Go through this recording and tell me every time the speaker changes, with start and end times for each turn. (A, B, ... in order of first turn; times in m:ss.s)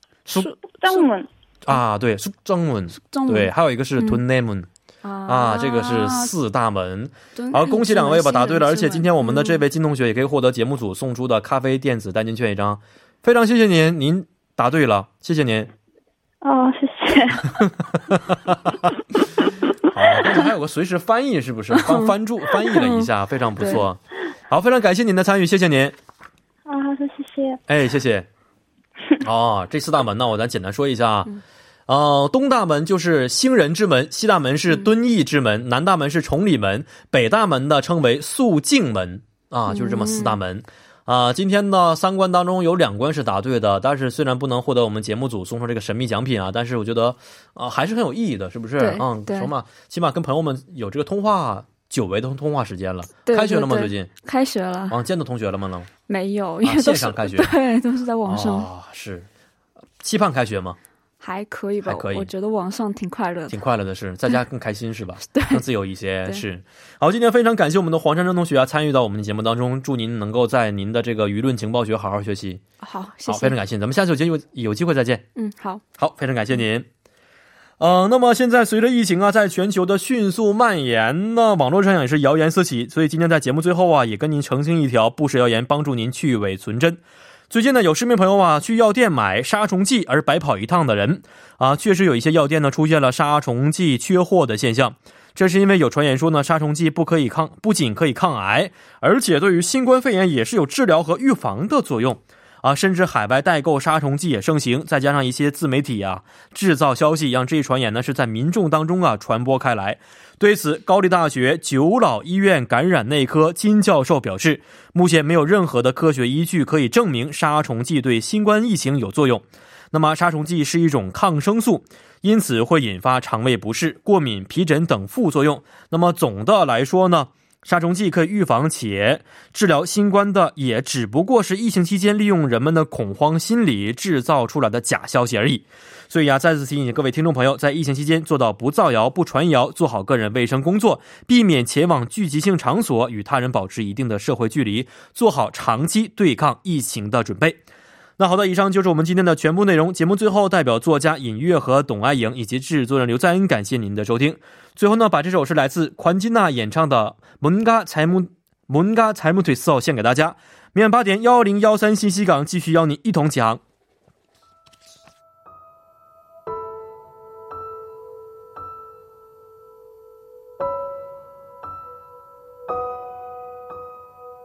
0:00.3-0:01.1 A
0:00.8-0:01.3 B
0:01.7-0:04.7 C
0:03.0-0:04.2 A
0:05.0-0:06.3 A
0:05.3-0:15.7 C
0:07.4-0:09.6 A
0:16.4-0:17.6 B
0:18.1-0:18.6 C
0:19.8-0:26.0 C
0:21.7-0:22.1 A
0:22.6-0:23.9 A
0:26.7-0:27.6 B
0:27.7-0:28.3 C
0:29.2-0:54.1 C
0:39.7-0:40.4 A
0:48.8-0:49.5 A
0:53.3-0:55.0 A
0:54.9-0:55.9 C
0:56.1-0:58.7 A
0:56.6-0:57.6 C
0:58.3-0:59.3 C
1:00.0-1:00.8 C
1:01.2-1:03.6 A
1:01.8-1:02.3 C
1:03.5-1:12.6 C
1:05.3-1:05.6 A
1:12.8-1:13.6 A
1:13.3-1:15.2 C
1:15.4-1:15.8 A
1:16.0-1:16.9 C
1:17.8-2:27.6 C
2:28.2-2:43.6 C